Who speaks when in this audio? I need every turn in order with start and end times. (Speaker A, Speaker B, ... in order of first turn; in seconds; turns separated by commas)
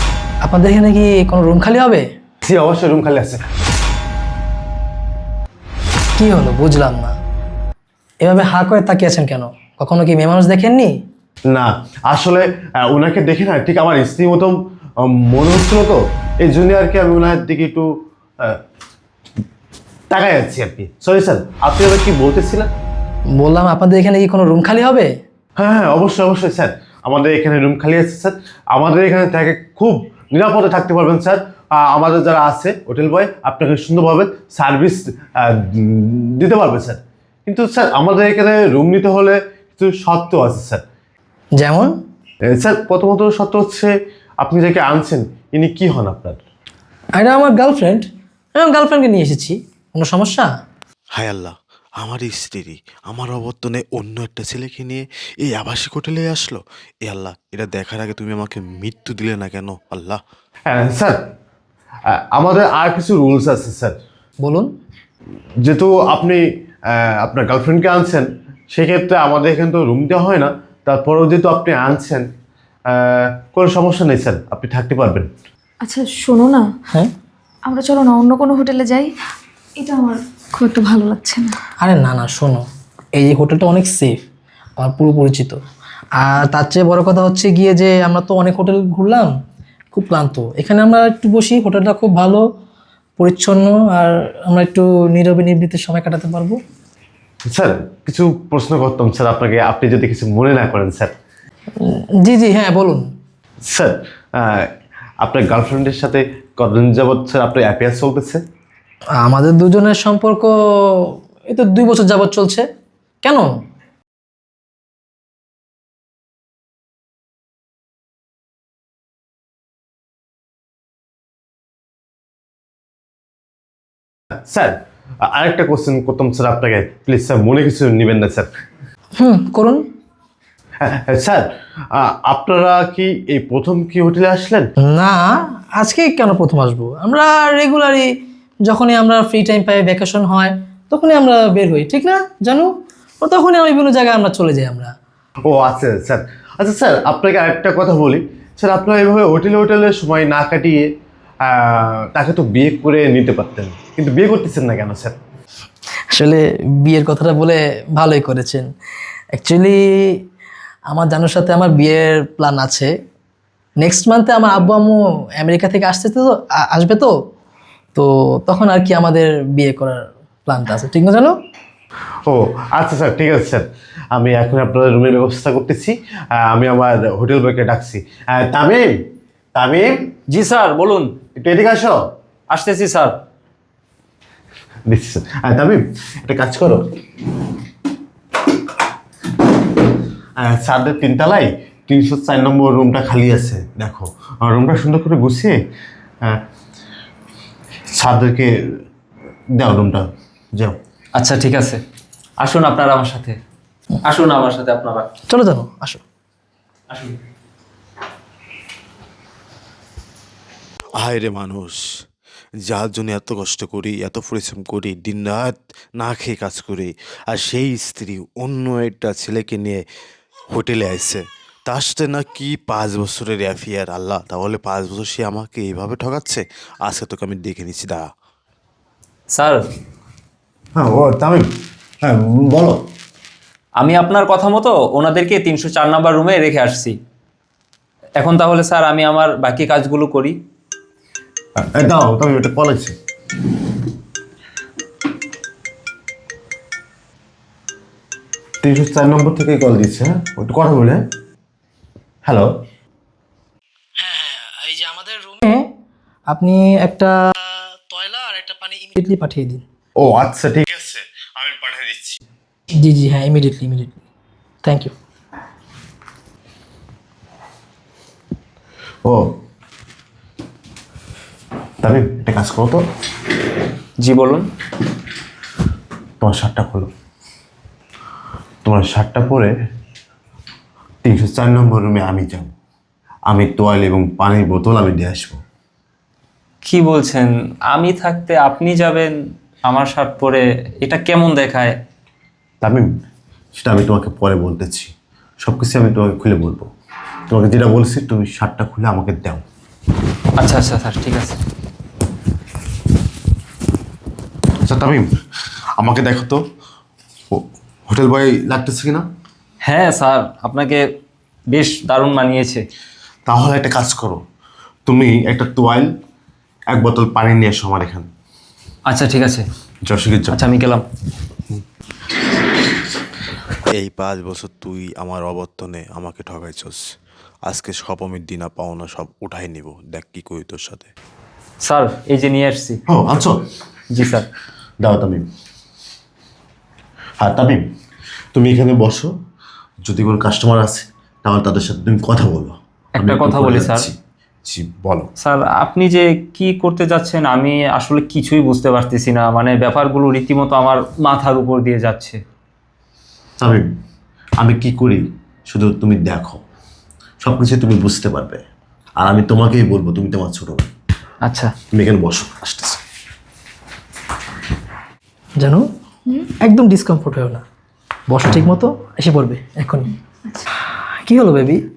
Speaker A: 0.4-2.1, Speaker B: 2.4-3.5, Speaker A: 6.2-7.2, Speaker A: 8.2-10.9, Speaker B: 11.5-17.9, Speaker B: 20.1-22.7, Speaker A: 23.4-25.1, Speaker B: 25.6-40.8, Speaker A: 41.6-41.9, Speaker B: 42.5-46.4, Speaker A: 47.1-50.5, Speaker C: 51.1-60.2, Speaker B: 60.7-61.2, Speaker B: 62.3-64.0, Speaker A: 64.4-64.7, Speaker B: 65.6-66.4, Speaker B: 66.9-72.2, Speaker B: 72.9-75.3, Speaker D: 75.8-76.7, Speaker D: 77.7-79.1, Speaker D: 79.8-81.5, Speaker A: 81.8-82.6, Speaker A: 83.2-84.2, Speaker A: 84.8-85.6, Speaker A: 86.2-89.3, Speaker A: 89.9-92.4, Speaker A: 93.2-96.6, Speaker B: 97.5-101.1, Speaker A: 101.8-103.1, Speaker B: 103.7-104.6, Speaker B: 105.2-108.4, Speaker A: 109.2-112.7, Speaker A: 113.2-113.6, Speaker B: 124.5-128.5, Speaker A: 129.2-129.8, Speaker B: 130.8-134.7, Speaker A: 134.8-138.1, Speaker A: 138.6-144.9, Speaker B: 145.4-150.9, Speaker B: 151.5-155.1, Speaker A: 156.1-158.7, Speaker A: 159.3-160.2, Speaker A: 160.9-162.9, Speaker A: 163.8-167.1, Speaker A: 167.9-171.3, Speaker B: 172.2-178.9, Speaker B: 179.5-180.1, Speaker E: 180.3-181.1, Speaker B: 181.3-182.0, Speaker E: 182.5-183.1, Speaker B: 184.9-186.9, Speaker B: 190.4-195.5, Speaker B: 197.9-198.5, Speaker B: 199.6-200.8, Speaker E: 201.2-201.8, Speaker E: 202.4-203.4, Speaker E: 204.0-205.1, Speaker A: 205.3-206.0, Speaker E: 206.9-207.1, Speaker C: 211.0-211.8, Speaker C: 212.7-219.8, Speaker C: 220.5-228.1, Speaker E: 229.3-229.6, Speaker B: 230.8-231.4, Speaker B: 232.0-232.8, Speaker E: 233.8-236.9, Speaker E: 238.2-240.3, Speaker B: 241.6-242.9, Speaker B: 248.6-251.0, Speaker B: 252.2-252.5, Speaker A: 254.0-255.7, Speaker A: 256.3-259.6, Speaker B: 260.0-262.2, Speaker A: 262.8-264.0, Speaker A: 264.6-264.9, Speaker B: 271.8-272.8, Speaker E: 274.0-274.4, Speaker B: 276.2-276.9, Speaker B: 278.6-279.5, Speaker B: 281.0-282.5, Speaker B: 283.3-285.4, Speaker E: 286.6-289.1, Speaker E: 289.6-291.7, Speaker B: 292.6-292.9, Speaker B: 293.6-294.9, Speaker B: 295.4-296.7, Speaker B: 297.3-299.4, Speaker E: 300.4-301.4, Speaker B: 304.6-305.1, Speaker B: 305.8-306.4, Speaker B: 307.3-309.0, Speaker E: 309.6-310.8, Speaker E: 311.5-312.6, Speaker B: 313.2-314.2, Speaker B: 314.9-315.9, Speaker B: 316.7-318.1, Speaker E: 318.9-319.4, Speaker B: 319.9-320.4, Speaker E: 320.3-320.8, Speaker C: 323.7-326.8, Speaker C: 327.4-330.9, Speaker E: 331.6-332.8, Speaker B: 332.9-333.4, Speaker E: 333.9-334.3, Speaker B: 334.8-335.2, Speaker B: 337.2-337.6, Speaker B: 338.3-339.1, Speaker B: 339.9-345.1, Speaker E: 342.9-343.9, Speaker E: 345.2-352.2, Speaker B: 354.4-356.4, Speaker B: 357.2-358.4, Speaker B: 359.0-360.7, Speaker E: 361.2-361.5, Speaker B: 361.7-362.8, Speaker A: 365.4-365.6, Speaker A: 366.4-367.4, Speaker A: 368.1-369.9, Speaker A: 371.0-371.6